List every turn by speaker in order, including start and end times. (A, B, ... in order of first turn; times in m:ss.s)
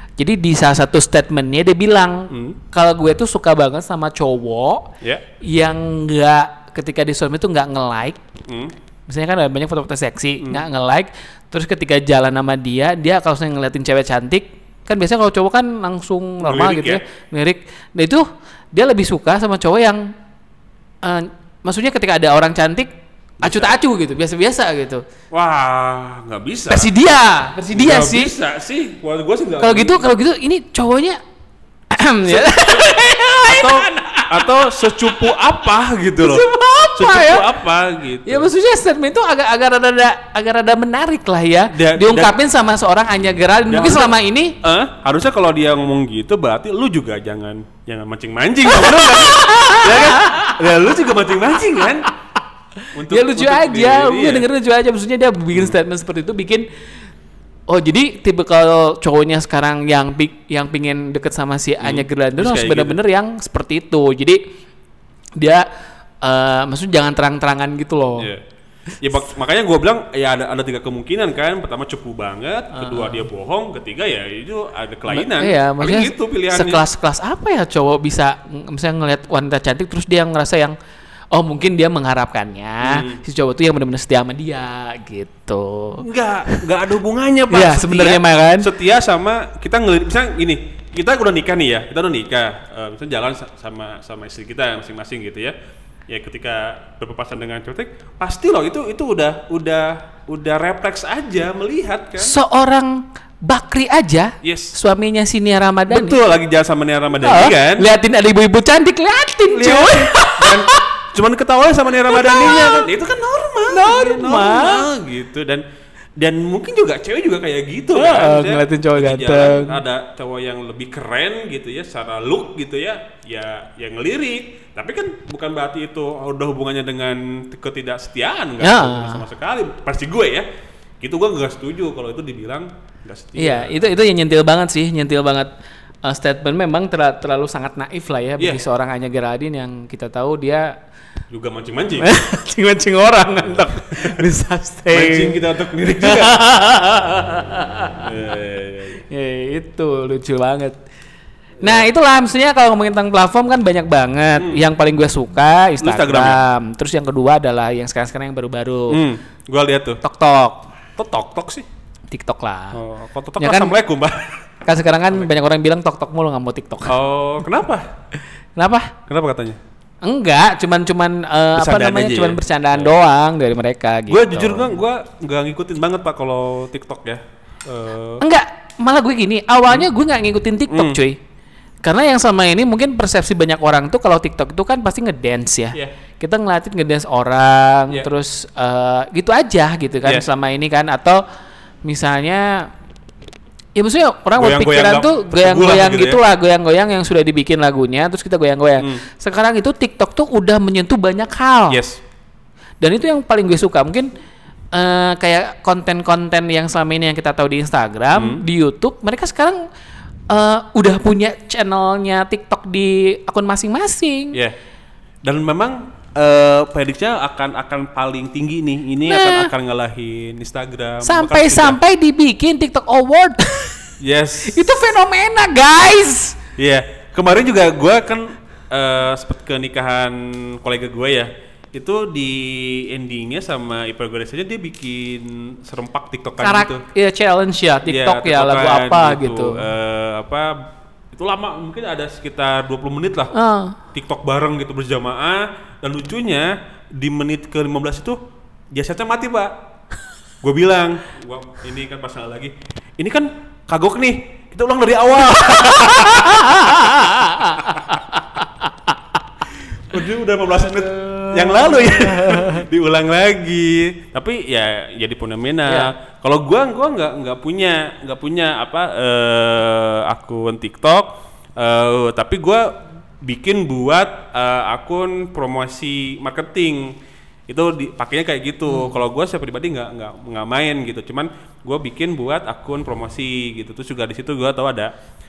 0:00.2-0:08.2 A
0:02.3-0:02.6 B
0:08.5-0:08.8 B
0:09.1-0:20.1 A
0:10.4-0:10.6 B
0:16.4-0:17.0 B
0:21.0-0:22.9 A
0:23.4-0:25.0 A
0:23.4-0:23.8 B
0:25.3-0:26.9 B
0:26.7-0:28.4 A
0:27.7-0:30.0 B
0:29.6-0:31.2 A
0:31.9-0:35.4 A
0:32.2-0:38.5 B
0:36.2-0:37.5 A
0:38.2-0:44.6 A
0:41.7-0:42.4 B
0:43.7-0:52.1 B
0:48.7-0:50.6 A
0:52.8-0:56.7 A
0:52.9-0:54.5 B
0:57.7-1:04.4 A
1:01.8-1:03.0 B
1:05.4-1:05.7 A
1:06.2-1:08.3 A
1:08.2-1:08.4 B
1:09.0-1:16.8 B
1:12.7-1:13.3 A
1:15.1-1:20.8 A
1:21.3-1:26.6 A
1:22.8-1:23.2 B
1:26.0-1:35.6 B
1:27.5-1:28.7 A
1:36.1-1:42.4 B
1:42.2-1:46.2 A
1:44.4-1:44.8 B
1:45.9-1:47.9 B
1:47.2-1:50.9 A
1:49.5-1:55.6 B
1:52.1-1:52.9 A
1:53.7-1:54.9 A
1:56.2-2:10.5 B
1:57.9-1:59.8 A
2:08.6-2:09.2 A
2:11.0-2:13.8 B
2:13.4-2:15.5 A
2:16.0-2:20.8 A
2:21.3-2:22.1 B
2:22.0-2:25.4 A
2:24.9-2:26.5 B
2:26.0-2:28.1 A
2:28.0-2:29.0 B
2:29.0-2:30.8 A
2:31.6-2:31.9 B
2:31.6-2:39.0 A
2:34.4-2:34.6 B
2:35.8-2:36.4 B
2:38.9-2:40.0 B
2:40.0-2:40.7 A
2:41.0-2:41.7 B
2:42.1-2:42.8 A
2:42.7-2:44.4 B
2:43.4-2:43.8 A
2:44.7-2:47.0 A
2:46.9-2:47.9 B
2:48.6-2:49.0 A
2:49.1-2:49.6 B
2:50.0-2:54.8 A
2:51.6-2:53.0 B
2:54.1-2:58.2 B
2:58.2-3:01.2 A
3:00.7-3:01.0 B
3:01.8-3:11.2 A
3:11.8-3:12.7 A
3:13.8-3:21.8 A
3:14.4-3:16.2 B
3:21.7-3:22.0 B
3:22.8-3:24.1 A
3:24.7-3:29.6 A
3:28.1-3:28.4 B
3:30.3-3:34.4 A
3:35.2-3:41.8 B
3:39.1-3:39.5 A
3:41.0-3:43.9 A
3:44.0-3:44.8 B
3:44.4-3:46.4 A
3:46.6-3:56.8 B
3:56.4-3:59.7 A
3:57.9-4:00.6 B
4:01.1-4:03.4 B
4:03.3-4:03.8 A
4:03.9-4:08.2 B
4:08.7-4:09.5 B
4:10.4-4:17.9 B
4:15.4-4:18.9 A
4:19.8-4:36.9 B
4:20.6-4:22.6 A
4:25.7-4:25.9 A
4:37.5-4:44.9 B
4:38.7-4:39.0 A